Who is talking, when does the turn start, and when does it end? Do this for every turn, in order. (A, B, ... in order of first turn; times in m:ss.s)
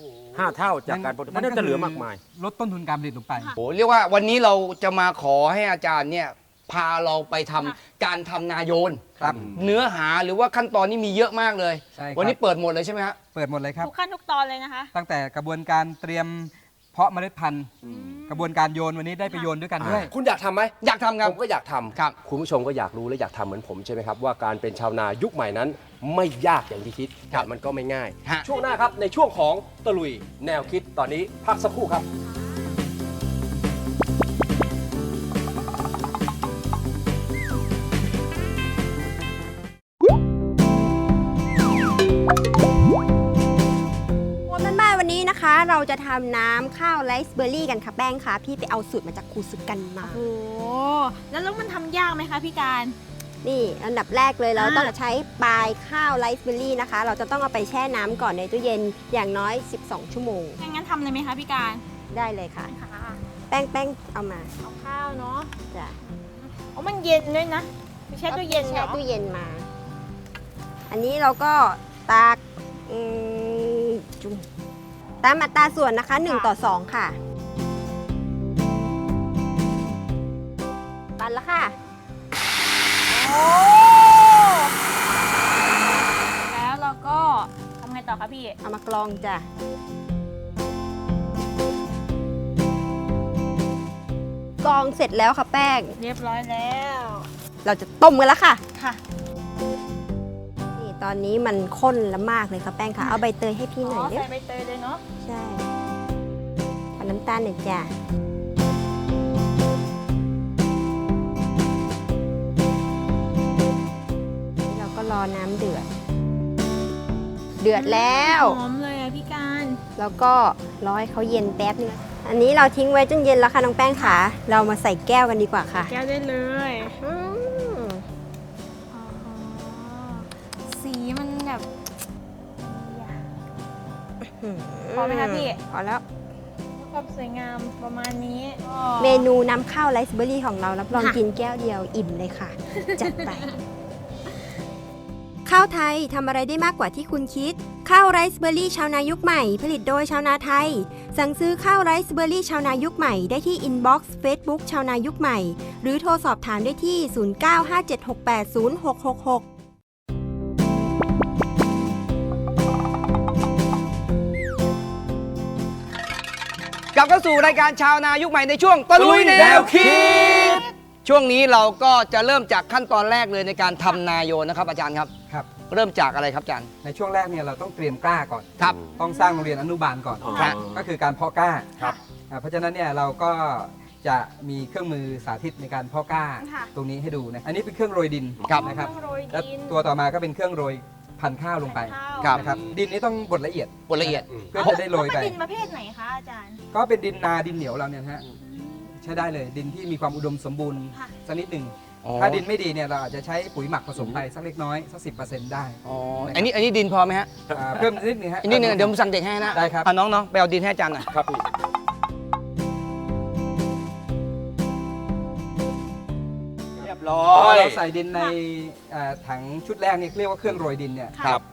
0:00.3-0:02.2 A
0:00.9-0:03.6 B
0:03.6-0:13.2 C
0:09.2-0:09.4 B
0:09.3-0:09.7 D
0:12.0-0:12.4 B
0:13.3-0:13.9 B
0:13.8-0:14.9 E
0:14.9-0:17.8 B
0:17.8-0:18.5 E
0:17.8-0:18.2 D
0:18.3-0:20.1 B
0:19.8-0:20.1 A
0:20.1-0:32.1 D
0:20.8-0:21.4 C
0:32.4-0:32.7 E
0:44.5-0:50.2 F
0:50.0-0:53.0 E
0:53.4-1:00.6 F
0:54.6-0:54.9 E
1:00.6-1:01.8 E
1:02.1-1:02.7 F
1:02.7-1:03.2 E
1:03.5-1:04.5 F
1:04.6-1:05.5 E
1:05.7-1:06.0 F
1:06.0-1:09.0 E
1:08.3-1:09.7 F
1:10.9-1:14.4 F
1:15.2-1:17.2 F
1:16.2-1:16.5 E
1:21.2-1:21.8 F
1:23.1-1:24.7 E
1:26.2-1:28.6 E
1:28.6-1:29.5 F
1:34.6-1:36.0 F
1:36.0-1:37.3 E
1:37.6-1:38.6 F
1:40.8-1:44.3 F
1:43.8-1:45.0 E
1:45.2-1:45.6 F
1:47.0-1:47.9 F
1:54.7-1:55.9 F
1:57.6-1:58.6 F
1:57.8-1:59.8 E
2:00.0-2:05.9 F
2:04.0-2:04.2 E
2:05.8-2:07.0 E
2:07.0-2:08.0 F
2:08.9-2:11.7 E
2:12.6-2:13.2 E
2:14.2-2:16.0 F
2:15.0-2:15.6 E
2:16.8-2:19.3 E
2:19.0-2:23.6 F
2:22.8-2:23.5 E
2:25.5-2:39.4 F
2:46.9-2:55.1 C
2:49.0-2:50.6 D
2:55.7-2:56.7 C
2:56.8-3:01.7 B
2:59.0-2:59.4 E
3:00.2-3:00.5 A
3:00.3-3:00.6 E
3:02.3-3:15.4 B
3:06.4-3:06.7 E
3:08.5-3:09.9 E
3:11.6-3:12.4 E
3:12.3-3:12.8 D
3:13.9-3:14.2 C
3:14.5-3:16.6 E
3:16.7-3:18.2 B
3:18.4-3:18.9 E
3:19.0-3:26.5 B
3:22.0-3:22.4 C
3:25.8-3:27.3 C
3:27.5-3:27.8 A
3:27.5-3:28.9 B
3:28.4-3:31.1 C
3:29.5-3:29.9 B
3:31.1-3:31.4 D
3:36.8-3:37.8 D
3:37.1-3:37.5 C
3:37.3-3:41.2 B